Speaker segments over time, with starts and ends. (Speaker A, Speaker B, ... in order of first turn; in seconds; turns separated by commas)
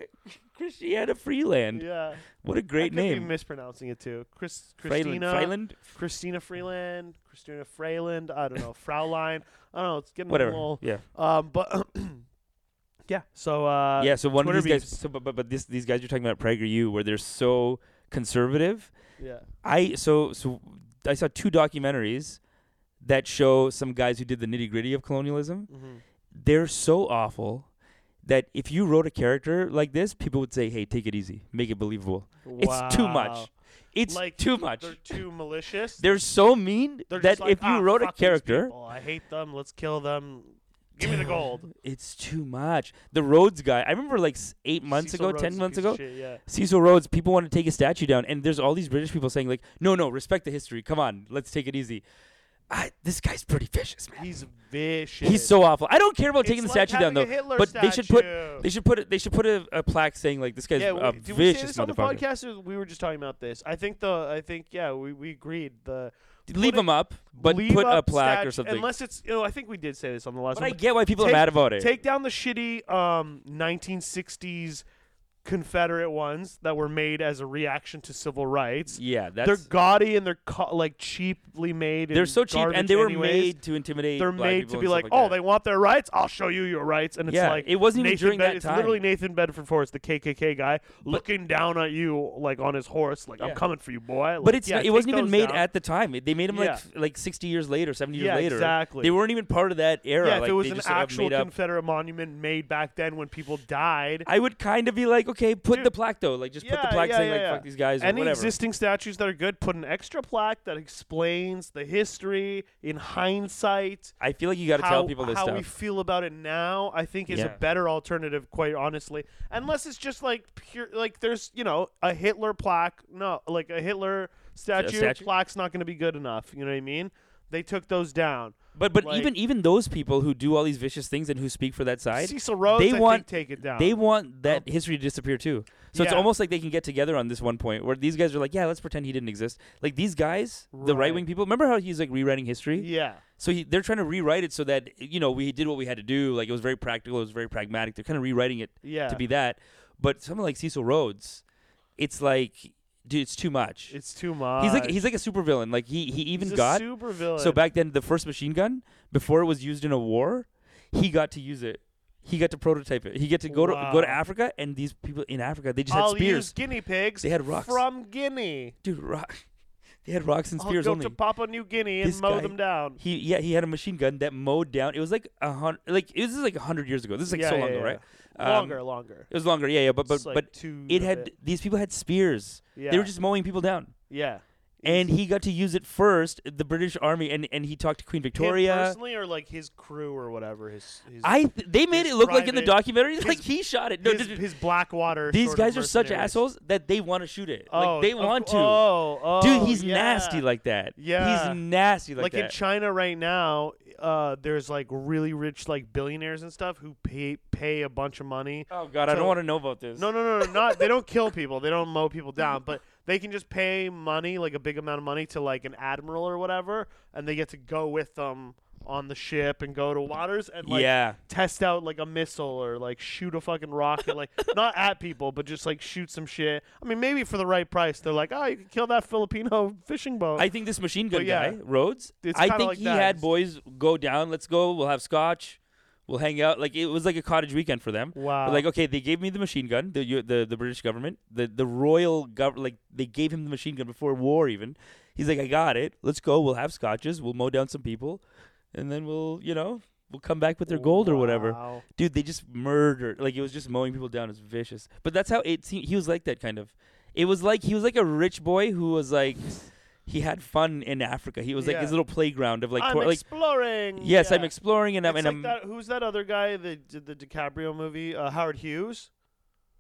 Speaker A: 0.2-3.3, Speaker B: 1.7-2.2, Speaker B: 2.8-12.2, Speaker A: 4.8-5.8, Speaker A: 10.3-11.0, Speaker B: 13.1-14.9, Speaker A: 14.0-18.9, Speaker B: 19.2-19.5, Speaker A: 19.6-22.4, Speaker A: 23.0-25.7, Speaker B: 25.7-26.0, Speaker A: 26.3-27.7, Speaker A: 28.2-35.2, Speaker B: 32.5-33.5, Speaker B: 34.1-36.1, Speaker A: 36.0-38.7, Speaker B: 37.1-41.7, Speaker A: 41.0-52.0, Speaker B: 44.9-46.4, Speaker A: 52.7-54.3, Speaker B: 54.2-55.6, Speaker A: 55.2-62.2, Speaker B: 56.4-58.7, Speaker B: 60.8-74.8, Speaker A: 66.5-68.9, Speaker A: 70.5-72.0, Speaker B: 75.4-83.6, Speaker A: 78.9-79.7, Speaker A: 82.1-85.4, Speaker B: 84.2-95.7, Speaker A: 87.3-89.0, Speaker A: 94.4-101.5, Speaker B: 96.5-96.8, Speaker B: 98.1-99.2, Speaker B: 100.2-104.3, Speaker A: 104.3-108.5, Speaker B: 106.6-114.2, Speaker A: 114.2-115.7, Speaker B: 114.7-129.3, Speaker A: 117.3-117.6, Speaker A: 124.8-125.3, Speaker A: 128.8-142.9, Speaker B: 132.1-134.0, Speaker B: 135.9-136.3, Speaker B: 140.7-141.3, Speaker B: 142.8-143.2, Speaker A: 143.4-151.4, Speaker B: 148.8-149.2, Speaker A: 152.0-153.9, Speaker B: 153.9-155.0, Speaker A: 154.6-156.8, Speaker B: 156.4-157.6, Speaker A: 157.4-166.5, Speaker B: 163.5-164.2, Speaker B: 165.9-168.8, Speaker A: 167.2-167.8, Speaker A: 168.8-169.4, Speaker A: 170.1-171.2, Speaker B: 170.6-173.0, Speaker A: 172.0-184.0, Speaker B: 177.3-179.3, Speaker B: 180.1-181.3, Speaker B: 182.8-183.1, Speaker B: 184.1-185.1, Speaker A: 184.8-189.0, Speaker B: 188.3-191.4, Speaker A: 191.2-194.4, Speaker B: 191.9-193.5, Speaker B: 194.0-196.4, Speaker A: 195.3-198.8, Speaker B: 197.7-200.4, Speaker A: 199.4-202.5, Speaker B: 201.0-201.6, Speaker B: 202.2-209.4, Speaker A: 208.7-210.8, Speaker B: 209.9-230.5, Speaker A: 220.7-221.2, Speaker A: 230.4-248.2, Speaker B: 231.1-231.6, Speaker B: 232.2-233.2, Speaker B: 238.1-238.7, Speaker A: 248.7-259.5, Speaker B: 250.7-251.8, Speaker A: 260.1-263.2, Speaker B: 261.6-262.0, Speaker B: 262.8-269.1, Speaker A: 264.0-265.6